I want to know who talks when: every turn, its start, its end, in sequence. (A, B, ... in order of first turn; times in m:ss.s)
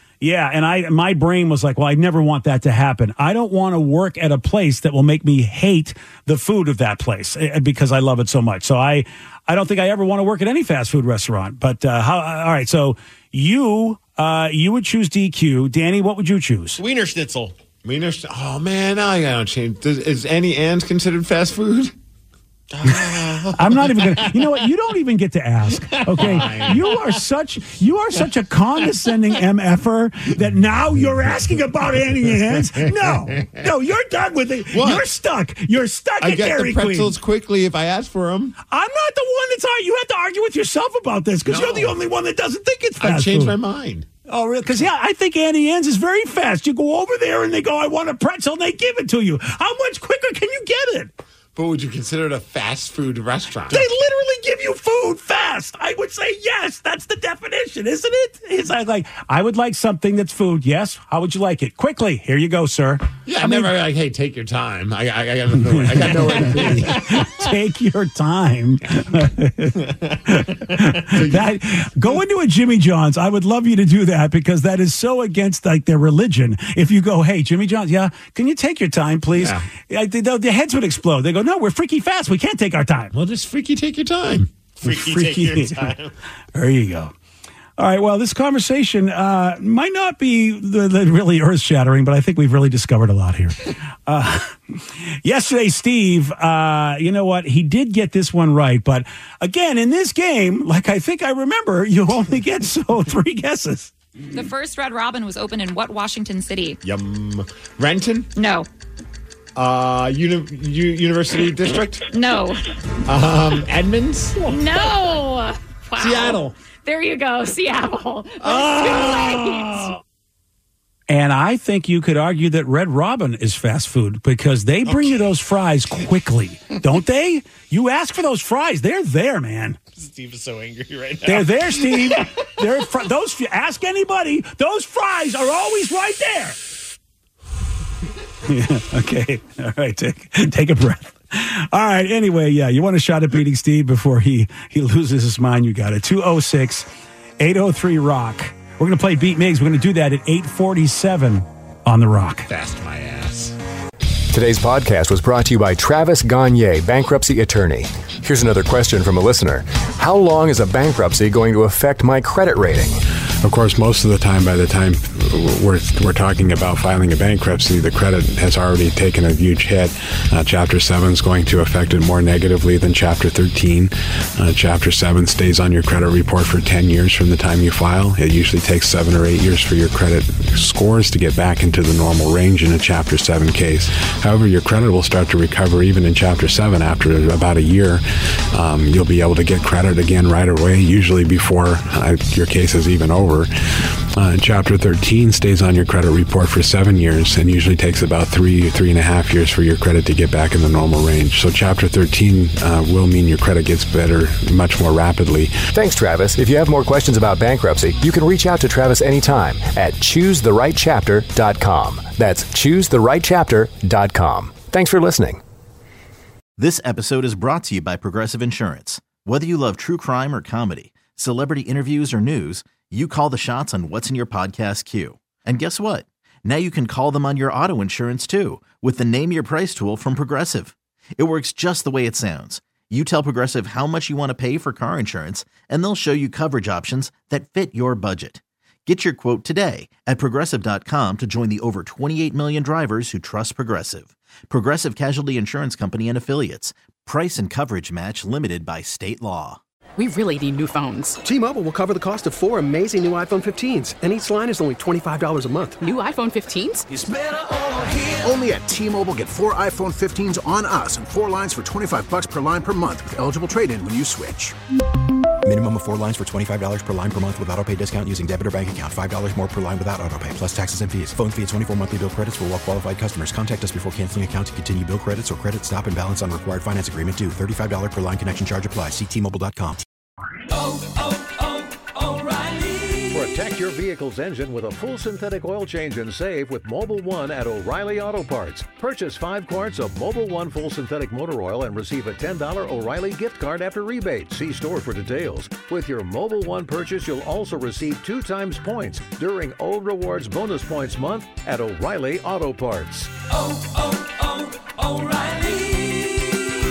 0:00.2-0:16.8 A
0:16.8-0:17.5 B
0:17.8-0:21.9 C
0:22.7-0:24.5 B
0:23.5-0:37.1 A
0:25.8-0:26.9 B
0:26.2-0:26.8 C
0:32.8-0:33.6 C
0:34.7-0:35.1 C
0:36.2-0:38.5 C
0:38.7-0:43.5 A
0:41.4-0:42.0 C
0:43.0-0:44.0 C
0:44.3-0:51.1 A
0:51.5-0:53.8 C
0:53.7-1:03.7 A
1:03.2-1:07.1 C
1:05.7-1:23.1 A
1:11.1-1:12.2 C
1:19.4-1:19.6 C
1:23.1-1:24.5 C
1:24.8-1:26.1 B
1:24.8-1:25.9 A
1:26.5-1:27.1 A
1:27.8-1:34.6 A
1:35.2-1:43.9 A
1:44.3-1:46.8 D
1:46.8-1:48.3 C
1:48.4-1:48.7 D
1:49.5-1:52.0 C
1:52.1-1:52.6 D
1:53.1-1:55.0 C
1:54.4-2:00.0 D
1:56.0-1:56.6 C
1:58.5-1:59.3 C
1:58.5-1:59.1 A
2:01.1-2:09.8 A
2:04.8-2:05.3 B
2:09.9-2:12.4 B
2:11.2-2:16.6 A
2:18.4-2:26.9 A
2:27.4-2:32.5 A
2:32.5-2:33.5 C
2:34.3-2:43.0 E
2:43.4-3:13.5 F
3:14.2-3:25.6 F
3:25.7-3:35.4 E
3:36.6-4:09.6 G
4:10.0-4:11.2 H
4:11.2-4:15.8 I
4:15.8-4:16.8 H
4:16.9-4:24.5 J
4:25.4-4:39.8 K
4:43.1-5:03.1 L